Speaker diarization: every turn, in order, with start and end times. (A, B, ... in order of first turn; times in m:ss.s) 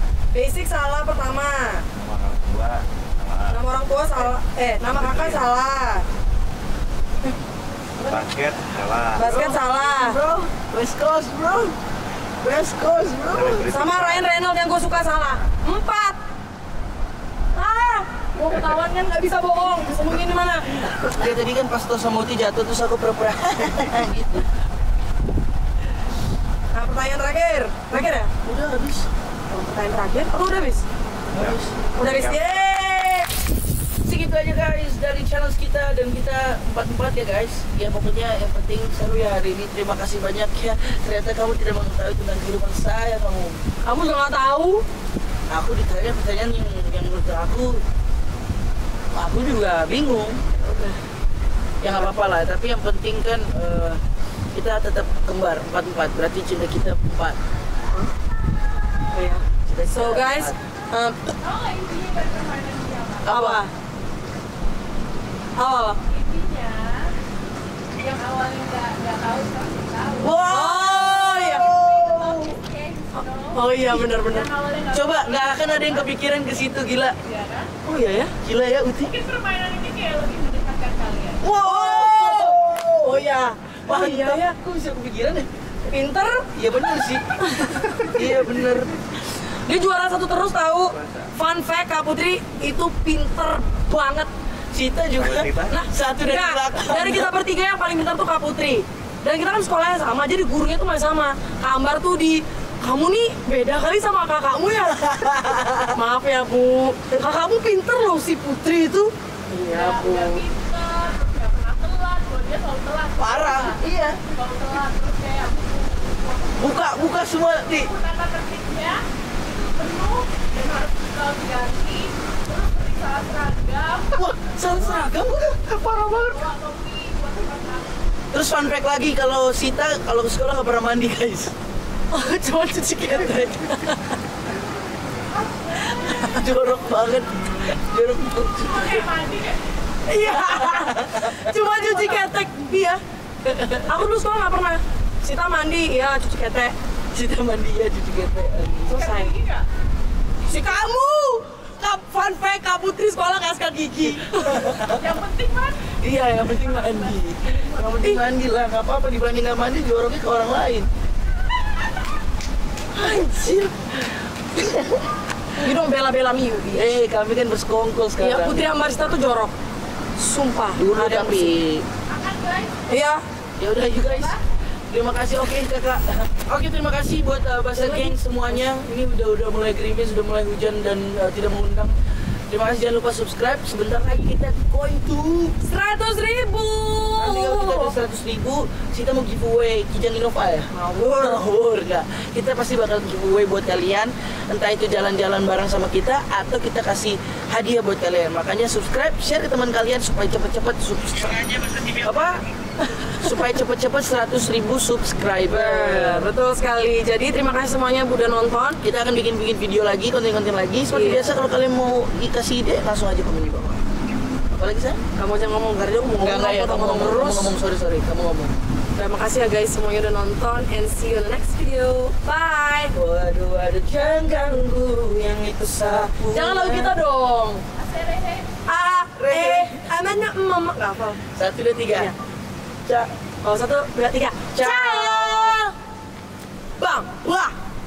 0:00.3-0:01.8 A
0:02.0-0:03.6 B
0:03.5-0:06.0 A
0:04.9-0:05.5 B
0:08.0-0:09.3 B
0:09.2-0:10.2 A
0:09.2-0:11.8 C
0:12.4-0:13.6 C
0:13.3-0:14.3 B
0:13.7-0:16.2 A
0:17.5-0:20.7 A
0:21.2-0:24.5 C
0:26.7-0:28.3 A
0:28.4-0:29.1 C
0:29.5-0:30.8 A
0:31.3-0:31.8 C
0:31.3-0:32.5 B
0:32.0-0:33.3 A
0:34.0-0:43.6 C
0:43.8-0:44.8 A
0:45.5-0:47.8 C
0:49.1-0:50.4 C
0:50.6-0:51.0 A
0:51.8-0:54.0 C
0:51.8-0:52.1 A
0:54.5-0:57.4 C
0:59.1-1:01.2 A
0:59.6-1:00.6 C
1:01.4-1:03.3 D
1:03.2-1:03.6 C
1:03.2-1:03.7 A
1:05.6-1:06.0 A
1:06.1-1:07.1 D
1:08.0-1:10.5 D
1:10.2-1:12.6 C
1:10.5-1:11.7 A
1:11.6-1:16.2 D
1:13.1-1:14.5 A
1:14.9-1:17.2 C
1:17.2-1:17.7 D
1:17.8-1:18.3 A
1:18.4-1:19.1 C
1:19.0-1:21.4 D
1:21.4-1:23.2 C
1:21.5-1:24.5 A
1:23.9-1:25.5 C
1:25.8-1:26.4 A
1:26.5-1:27.2 C
1:27.4-1:28.1 A
1:28.0-1:28.9 C
1:29.6-1:34.3 A
1:31.0-1:31.3 B
1:34.7-1:37.3 C
1:35.2-1:35.7 B
1:35.7-1:45.0 A
1:44.9-1:46.0 C
1:45.9-1:50.4 A
1:49.7-2:04.3 D
1:53.2-1:54.2 C
1:56.6-1:57.9 C
2:04.1-2:05.8 C
2:06.1-2:07.9 D
2:08.3-2:11.5 C
2:12.1-2:14.1 A
2:16.0-2:19.0 C
2:18.6-2:19.6 D
2:20.1-2:23.0 A
2:20.3-2:21.5 C
2:21.7-2:22.2 D
2:23.4-2:23.8 C
2:23.8-2:26.7 A
2:27.1-2:29.0 C
2:28.9-2:29.3 A
2:28.9-2:29.6 D
2:30.5-2:34.7 A
2:34.3-2:35.0 C
2:35.0-2:35.9 D
2:36.0-2:40.9 C
2:36.7-2:37.1 D
2:43.0-2:45.0 C
2:45.6-2:47.0 A
2:46.7-2:48.7 C
2:48.2-2:49.5 A
2:50.2-2:51.5 A
2:50.8-2:51.8 C
2:52.1-2:52.8 D
2:52.9-2:53.2 A
2:53.6-2:54.4 C
2:54.0-2:54.4 D
2:54.9-3:01.9 C
2:57.8-2:58.6 A
3:02.5-3:05.6 C
3:05.6-3:07.9 A
3:07.2-3:22.4 C
3:10.7-3:11.4 A
3:23.2-3:26.3 C
3:25.5-3:28.8 A
3:28.8-3:33.8 C
3:30.9-3:31.3 A
3:34.5-3:35.0 C
3:35.2-3:37.5 A
3:36.2-3:38.5 C
3:39.0-3:42.9 A
3:42.9-3:46.9 C
3:45.8-3:47.6 A
3:47.7-3:48.5 D
3:48.7-3:51.2 A
3:49.2-3:49.8 C
3:51.4-3:52.1 C
3:53.4-3:55.7 A
3:54.5-3:55.6 C
3:56.8-3:57.5 A